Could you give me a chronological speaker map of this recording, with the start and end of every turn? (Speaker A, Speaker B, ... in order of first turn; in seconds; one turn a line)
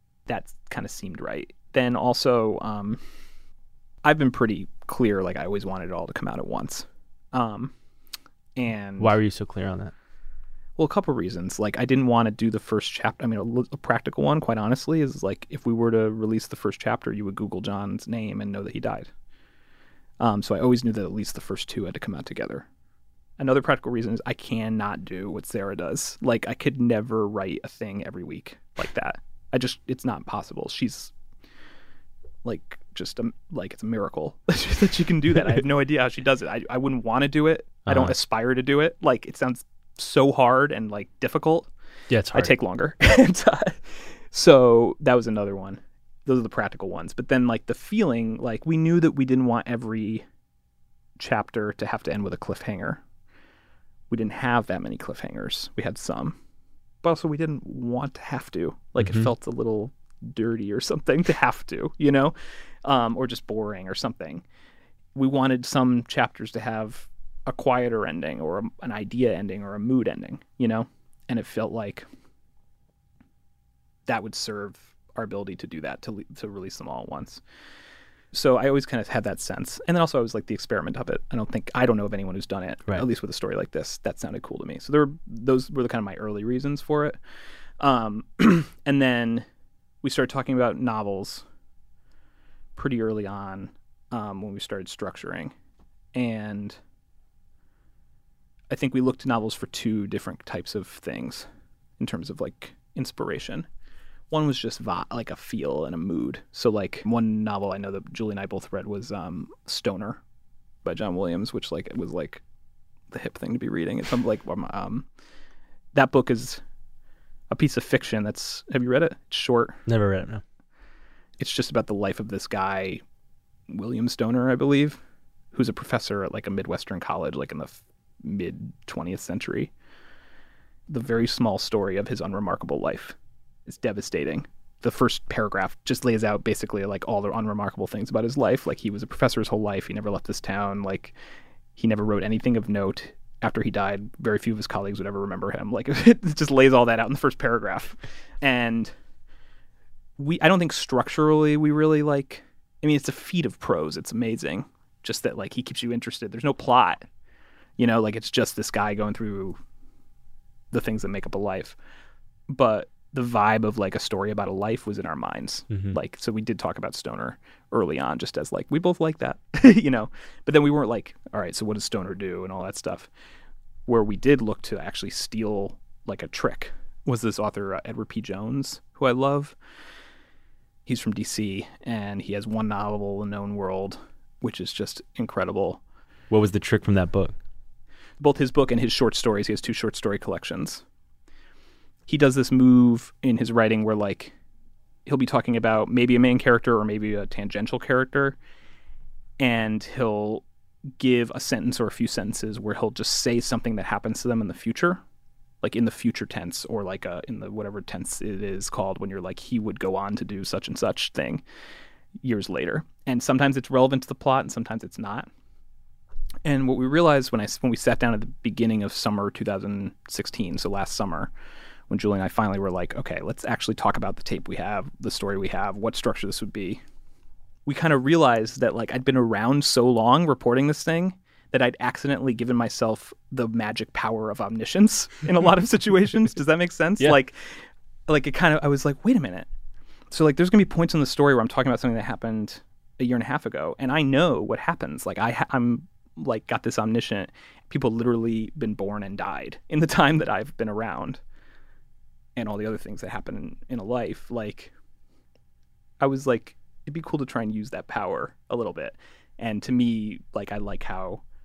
Speaker A: 0.3-3.0
Speaker A: 4.0-7.7
Speaker A: 8.6-9.2
Speaker B: 9.0-9.9
Speaker A: 10.8-19.1
Speaker A: 20.2-22.7
Speaker A: 23.4-31.1
Speaker A: 32.4-41.7
Speaker B: 37.9-38.1
Speaker B: 42.1-42.5
Speaker A: 42.3-50.2
Speaker A: 51.2-53.0
Speaker A: 54.1-56.4
Speaker A: 57.0-64.4
Speaker B: 59.0-59.3
Speaker A: 65.2-72.0
Speaker A: 74.1-77.4
Speaker A: 78.3-87.2
Speaker A: 87.8-89.5
Speaker A: 90.0-91.5
Speaker A: 92.8-95.5
Speaker A: 96.1-96.8
Speaker A: 98.7-101.5
Speaker A: 102.0-103.7
Speaker A: 104.3-110.2
Speaker A: 110.8-112.4
Speaker A: 113.1-115.1
Speaker A: 115.9-116.6
Speaker A: 117.5-119.8
Speaker B: 119.9-120.4
Speaker A: 121.4-123.0
Speaker A: 123.7-125.0
Speaker A: 125.5-129.7
Speaker A: 130.9-133.2
Speaker A: 133.7-141.1
Speaker A: 141.8-148.9
Speaker A: 150.2-157.1
Speaker A: 157.8-159.6
Speaker A: 160.7-161.8
Speaker A: 162.5-173.1
Speaker B: 165.7-166.0
Speaker A: 173.9-179.6
Speaker A: 180.9-185.8
Speaker B: 186.3-187.4
Speaker A: 188.2-190.8
Speaker A: 192.1-194.3
Speaker A: 195.1-198.4
Speaker A: 199.4-200.4
Speaker A: 201.0-205.0
Speaker A: 205.6-211.4
Speaker A: 212.2-215.3
Speaker A: 216.4-221.3
Speaker A: 221.9-226.8
Speaker A: 227.7-239.5
Speaker A: 240.1-251.2
Speaker A: 252.4-254.7
Speaker A: 256.0-261.2